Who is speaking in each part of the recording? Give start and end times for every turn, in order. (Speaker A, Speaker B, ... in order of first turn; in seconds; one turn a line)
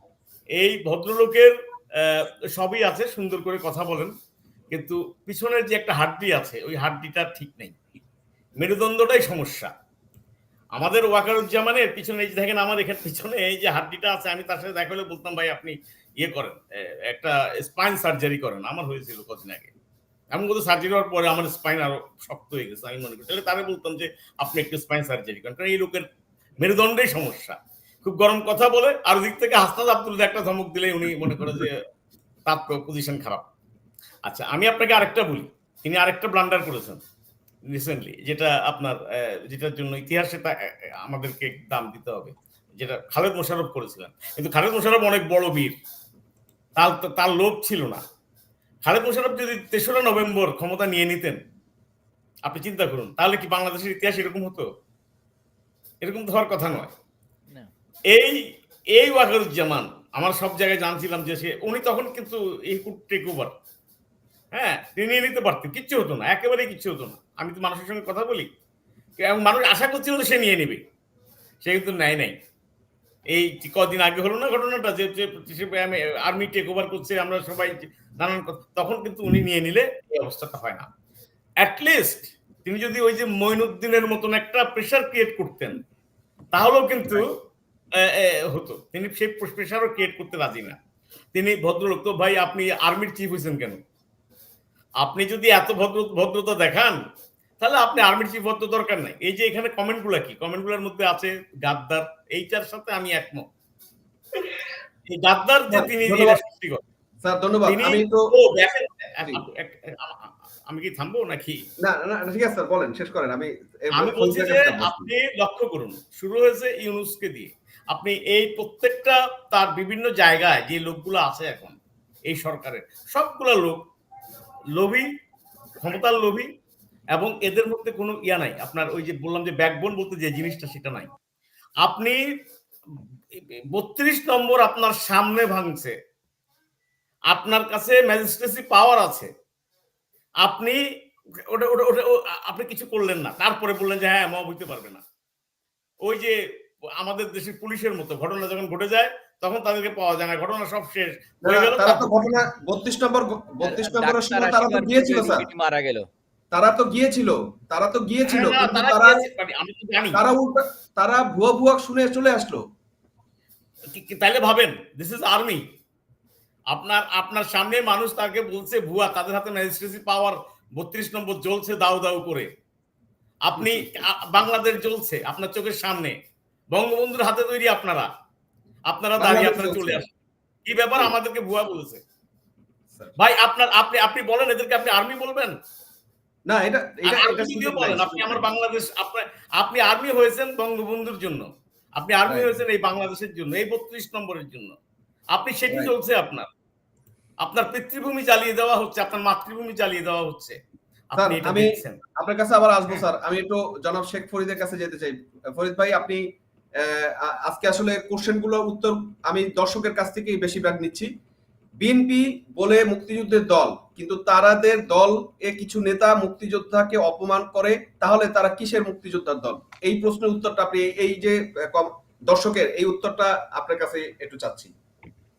Speaker A: 0.6-4.1
Speaker A: 4.7-7.8
Speaker A: 8.6-9.7
Speaker A: 10.7-19.7
Speaker A: 20.3-26.1
Speaker A: 26.6-31.8
Speaker A: 32.5-33.4
Speaker A: 34.2-37.0
Speaker A: 37.7-45.8
Speaker A: 46.8-48.0
Speaker A: 48.8-51.4
Speaker A: 52.4-54.7
Speaker A: 56.0-56.9
Speaker A: 58.1-58.4
Speaker A: 59.0-63.5
Speaker A: 64.5-68.5
Speaker A: 69.2-70.8
Speaker A: 71.6-72.4
Speaker A: 73.3-80.9
Speaker A: 81.6-85.8
Speaker A: 86.5-87.3
Speaker A: 88.0-90.8
Speaker A: 91.3-93.8
Speaker A: 95.0-97.0
Speaker A: 97.6-103.5
Speaker A: 105.1-106.8
Speaker B: 105.7-106.4
Speaker B: 107.2-108.3
Speaker A: 107.6-111.6
Speaker B: 111.8-115.1
Speaker A: 113.9-121.8
Speaker A: 122.3-123.8
Speaker A: 124.8-125.1
Speaker A: 125.8-126.5
Speaker A: 127.1-131.1
Speaker A: 131.8-132.2
Speaker A: 133.3-135.9
Speaker A: 137.3-139.3
Speaker A: 140.4-140.8
Speaker A: 141.4-145.0
Speaker A: 146.0-146.4
Speaker A: 147.0-152.4
Speaker B: 151.5-155.4
Speaker C: 153.6-156.1
Speaker B: 156.5-159.2
Speaker A: 158.2-160.2
Speaker B: 160.1-162.6
Speaker A: 163.9-165.6
Speaker A: 166.7-172.5
Speaker A: 173.4-176.2
Speaker B: 173.6-173.8
Speaker A: 176.7-178.1
Speaker A: 178.9-180.1
Speaker B: 179.2-180.0
Speaker A: 180.7-182.0
Speaker A: 183.2-185.6
Speaker B: 186.5-188.4
Speaker A: 187.1-194.7
Speaker B: 192.2-192.5
Speaker A: 195.3-196.5
Speaker A: 197.4-200.6
Speaker A: 201.1-202.0
Speaker B: 201.2-206.2
Speaker B: 206.8-211.1
Speaker B: 211.8-224.7